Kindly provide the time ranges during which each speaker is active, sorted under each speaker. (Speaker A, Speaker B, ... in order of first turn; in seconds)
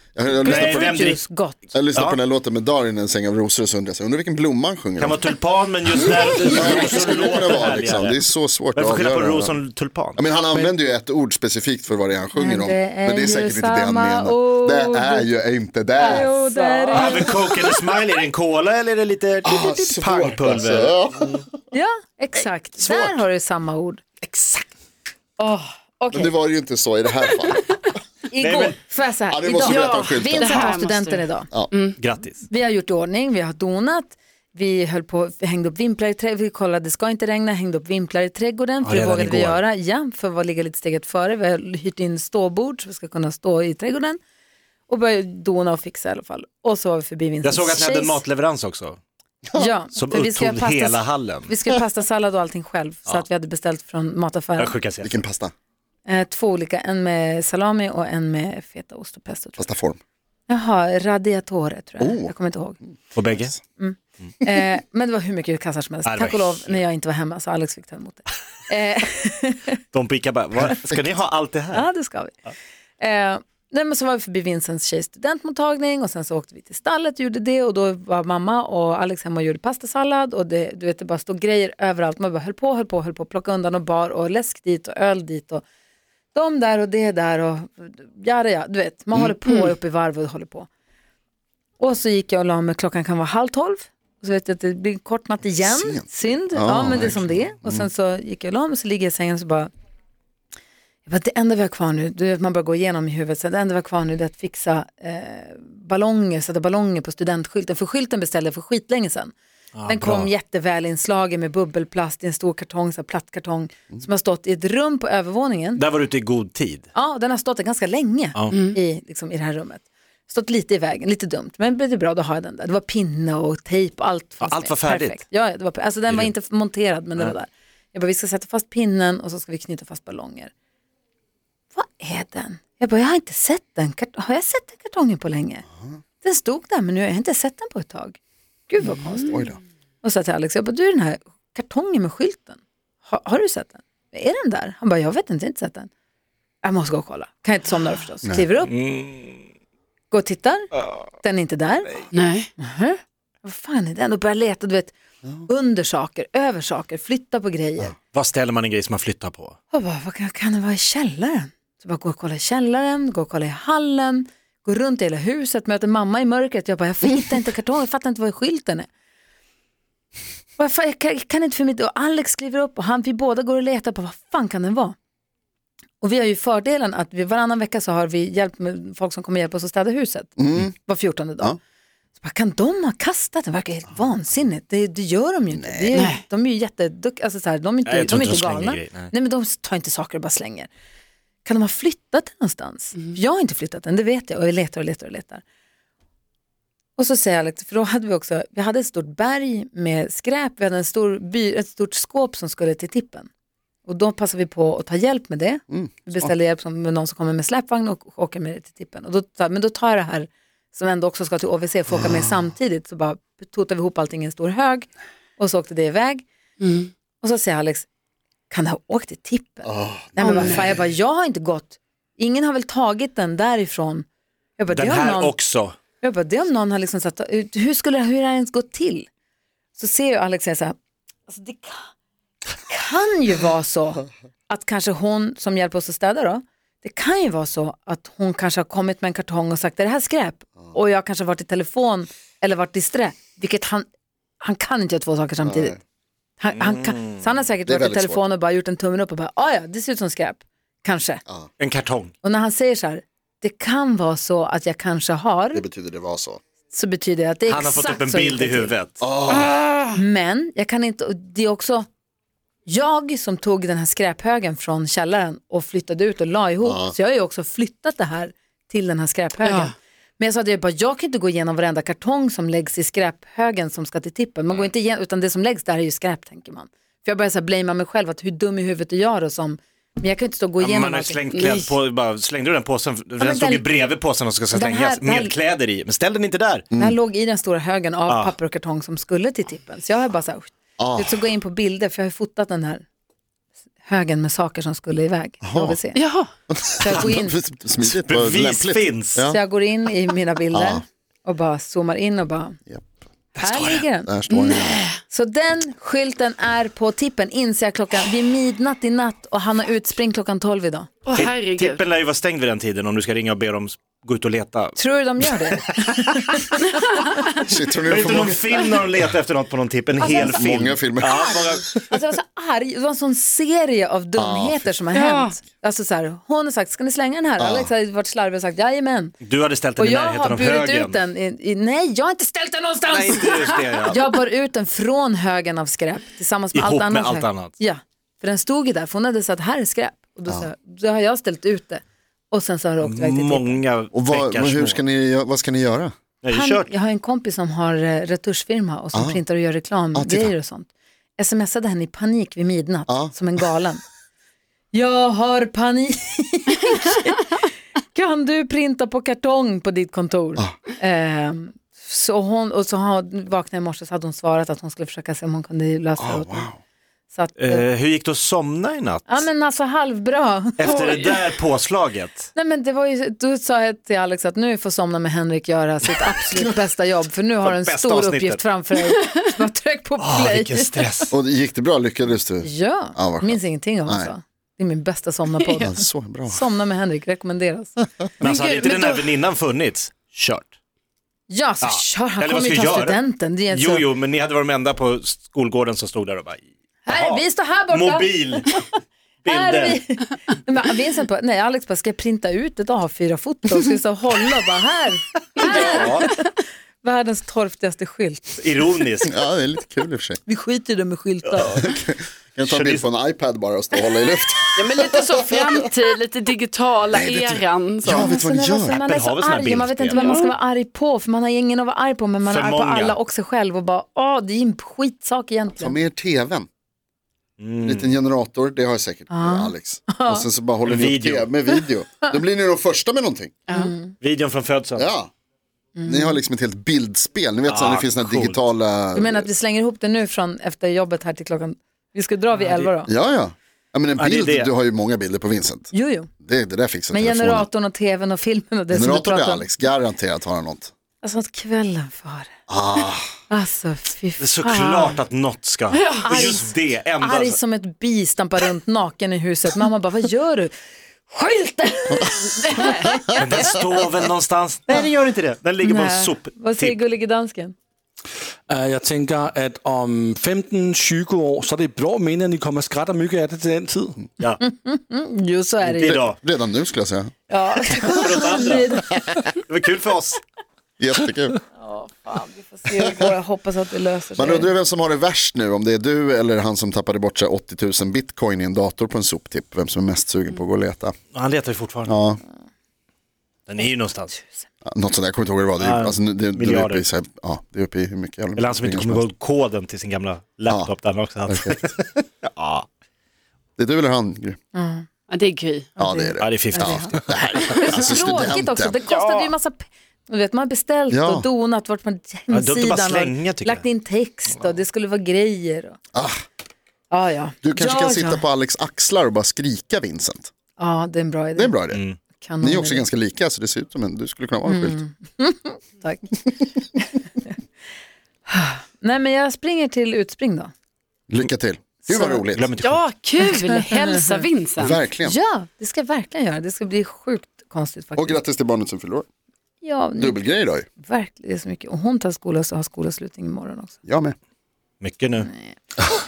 Speaker A: 0.1-1.1, 1.7-5.2, 6.3-9.6, 10.2-16.3, 19.4-21.4, 26.1-27.8, 29.3-30.8, 49.5-49.7, 55.0-55.5, 59.6-60.0, 62.0-62.3, 95.6-97.9, 139.2-139.6, 180.4-180.7, 185.5-186.0, 205.7-206.3, 219.6-220.7, 245.4-245.8, 247.7-248.2, 255.5-256.4, 259.0-259.5, 266.6-266.9, 286.7-287.0, 290.8-291.3, 295.4-295.8, 296.5-299.4, 300.5-300.8, 304.1-304.9, 317.4-318.5, 320.1-321.6, 324.1-324.7, 327.4-327.7, 343.9-345.9, 348.9-349.2, 349.9-350.3, 352.9-353.1, 366.0-366.6, 381.1-384.1, 385.6-386.4, 409.1-410.2, 411.4-415.4, 416.9-418.8, 425.6-426.5, 427.6-433.3, 434.8-435.1, 435.8-439.3, 442.9-447.4, 448.7-450.7, 452.5-453.1, 462.0-463.2, 475.8-477.1, 480.8-481.4, 482.7-483.1, 484.1-490.9, 491.9-492.2, 494.6-499.1, 501.3-501.6, 503.6-504.4, 505.8-508.8, 510.9-511.2, 515.9-516.2, 517.4-520.3, 521.3-521.8, 522.4-524.8, 531.1-532.5, 534.6-535.2, 538.0-539.1, 540.0-540.6, 543.8-544.1
Speaker B: 0.3-1.6, 6.0-7.6, 12.3-15.3, 16.0-17.3, 21.7-24.0, 25.4-26.3, 28.3-31.5, 32.5-44.2, 44.9-48.2, 49.5-54.7, 56.0-59.7, 60.5-62.8, 63.8-69.8, 71.7-72.4, 73.0-85.6, 86.3-90.7, 91.8-99.7, 101.0-109.3, 109.8-115.8, 116.9-130.5, 131.7-135.6, 136.2-139.5, 140.0-145.9, 146.6-148.7, 150.1-150.7, 151.2-154.9, 155.4-157.9, 159.7-168.9, 170.6-174.9, 176.0-181.6, 182.2-190.7, 191.4-195.4, 197.0-203.3, 203.8-216.2, 217.2-217.9, 218.5-224.1, 224.6-225.3, 226.0-229.1, 229.8-230.8, 231.3-231.9, 232.7-243.9, 244.4-245.8, 246.4-251.2, 252.2-255.6, 256.7-258.7, 259.9-261.9, 262.6-281.2, 283.2-283.6, 284.5-285.3, 286.7-292.8, 293.8-296.0, 296.8-297.4, 299.2-302.6, 303.4-304.1, 305.1-310.9, 314.8-316.6, 320.0-321.3, 321.9-329.2, 329.8-343.6, 346.3-353.8, 354.7-357.4, 357.9-366.5, 367.1-367.6, 369.1-371.0, 372.3-380.9, 382.4-385.7, 386.3-387.9, 391.3-393.8, 396.9-398.6, 399.3-408.7, 410.2-411.7, 417.9-425.8, 429.1-430.2, 433.5-433.9, 435.8-436.2, 438.9-442.9, 445.7-446.1, 446.9-449.5, 451.0-452.3, 453.3-455.0, 456.1-460.5, 461.1-463.4, 465.6-467.5, 474.4-475.9, 477.3-479.2, 481.6-484.5, 494.2-494.4, 504.5-504.9, 505.8-515.8, 516.9-518.2, 520.6-521.5, 522.2-522.9, 524.4-526.2, 528.3-530.5, 531.9-532.2, 533.5-534.2, 535.0-538.2, 539.6-540.2, 540.8-543.7, 545.2-545.6
Speaker C: 0.4-1.2, 1.9-2.2, 5.0-8.2, 8.7-10.7, 16.9-21.4, 22.8-23.2, 24.2-24.6, 28.4-28.8, 32.0-32.4, 38.8-39.6, 47.4-49.0, 49.9-51.5, 54.6-55.2, 63.1-63.5, 66.0-66.8, 69.9-71.8, 109.7-110.3, 115.8-116.9, 124.4-125.2, 148.7-149.4, 158.1-159.6, 187.8-189.1, 224.7-225.8, 246.5-247.0, 251.6-252.1, 257.5-259.1, 280.6-286.7, 288.1-288.3, 298.0-299.2, 303.4-303.8, 311.1-316.4, 317.9-321.9, 329.2-331.0, 332.9-334.0, 336.5-337.5, 342.8-344.8, 346.2-346.7, 367.4-369.3, 370.6-372.3, 377.4-378.4, 380.0-381.1, 388.2-390.5, 391.6-393.0, 393.5-398.5, 399.2-399.8, 405.4-406.1, 408.4-409.1, 412.4-412.9, 418.8-420.1, 422.2-423.0, 427.4-427.9, 430.6-431.3, 434.0-434.9, 437.5-438.4, 442.3-442.7, 444.0-444.5, 454.2-457.4, 463.1-466.8, 475.6-476.2, 477.9-478.7, 479.5-480.2, 491.1-491.9, 493.5-494.1, 495.6-496.8, 498.4-502.6, 506.2-507.0, 512.3-513.6, 521.7-522.0, 532.3-532.9, 544.8-545.3
Speaker D: 16.0-17.4, 29.6-32.0, 118.5-118.8, 152.1-152.5, 185.9-186.2, 216.6-216.9, 220.2-220.7, 259.3-260.0, 269.4-269.7, 281.3-281.7, 295.9-296.3, 304.3-305.0, 311.1-311.8, 324.9-325.3, 370.7-371.1, 388.2-389.1, 414.6-418.1, 419.9-420.3, 455.7-456.4, 505.1-505.7, 508.9-509.3, 532.6-534.8
Speaker E: 468.5-474.0